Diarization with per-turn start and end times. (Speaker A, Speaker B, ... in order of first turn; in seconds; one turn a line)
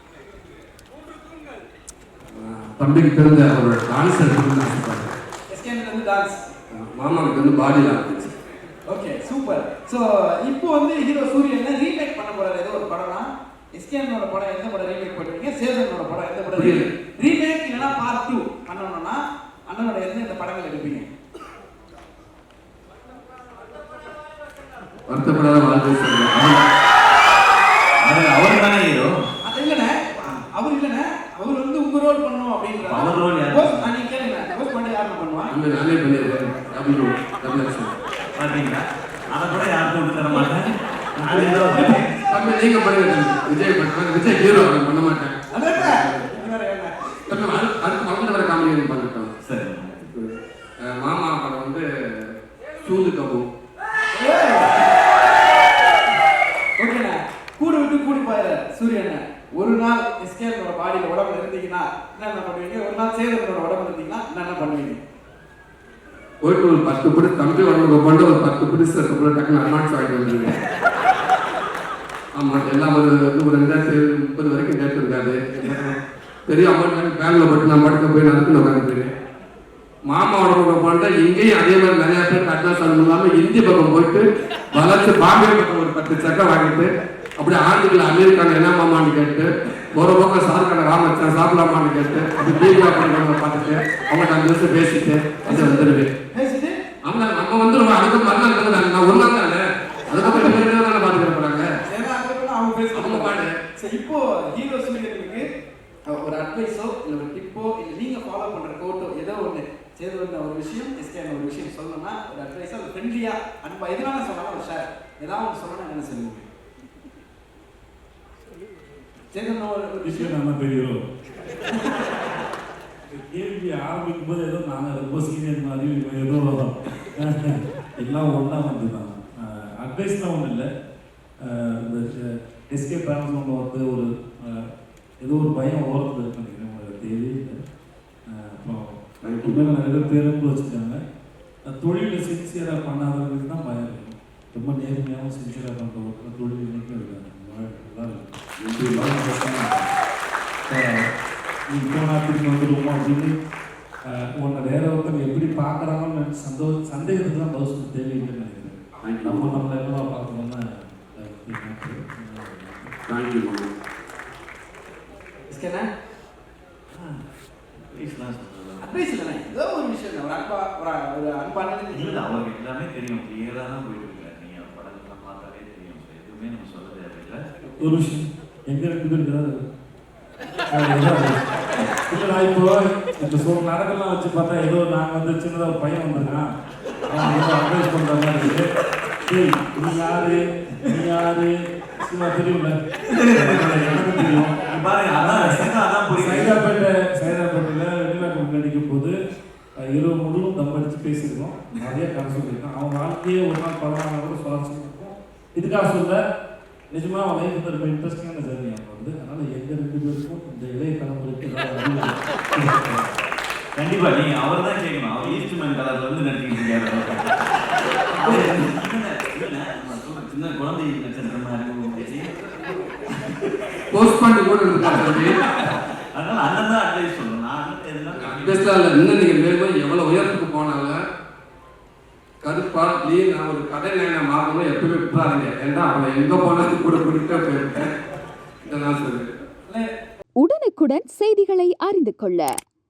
Speaker A: 2.3-5.1
Speaker B: 5.5-6.4
Speaker A: 6.7-8.3
Speaker B: 8.9-21.1
Speaker A: 16.5-16.9
Speaker A: 25.1-26.6
Speaker C: 28.0-29.1
Speaker B: 29.4-35.5
Speaker C: 32.8-33.9
Speaker A: 35.5-37.9
Speaker C: 38.4-42.2
Speaker B: 41.2-42.0
Speaker A: 42.3-46.3
Speaker B: 45.5-46.9
Speaker A: 47.3-49.3
Speaker C: 49.4-50.1
Speaker A: 50.1-52.3
Speaker A: 52.8-53.5
Speaker B: 54.1-54.9
Speaker B: 56.8-65.0
Speaker A: 66.4-70.5
Speaker A: 72.3-75.9
Speaker A: 76.5-79.1
Speaker A: 80.1-96.1
Speaker B: 95.4-96.7
Speaker A: 97.1-101.7
Speaker B: 100.2-100.7
Speaker B: 101.9-105.4
Speaker A: 102.9-103.5
Speaker B: 106.1-116.5
Speaker B: 119.3-120.3
Speaker D: 120.0-121.0
Speaker D: 123.1-130.7
Speaker D: 131.4-134.6
Speaker D: 135.2-137.6
Speaker D: 138.3-141.0
Speaker A: 139.2-139.7
Speaker D: 141.7-148.4
Speaker A: 148.6-149.1
Speaker D: 148.9-149.9
Speaker D: 150.7-151.1
Speaker D: 151.7-153.3
Speaker D: 154.1-162.9
Speaker A: 159.0-159.6
Speaker A: 163.1-163.7
Speaker B: 165.5-165.9
Speaker C: 166.9-167.2
Speaker C: 167.9-169.0
Speaker B: 168.8-172.2
Speaker C: 171.9-177.4
Speaker D: 177.8-179.5
Speaker D: 180.7-181.4
Speaker D: 182.1-186.4
Speaker D: 187.1-188.7
Speaker D: 189.3-192.7
Speaker C: 193.1-196.5
Speaker D: 193.3-194.6
Speaker D: 195.1-199.1
Speaker D: 199.8-206.2
Speaker D: 206.9-213.1
Speaker C: 213.8-217.3
Speaker C: 218.1-222.3
Speaker A: 223.9-225.4
Speaker C: 224.9-228.7
Speaker A: 228.1-231.0
Speaker A: 232.4-237.9
Speaker A: 238.7-239.3
Speaker E: 240.4-242.5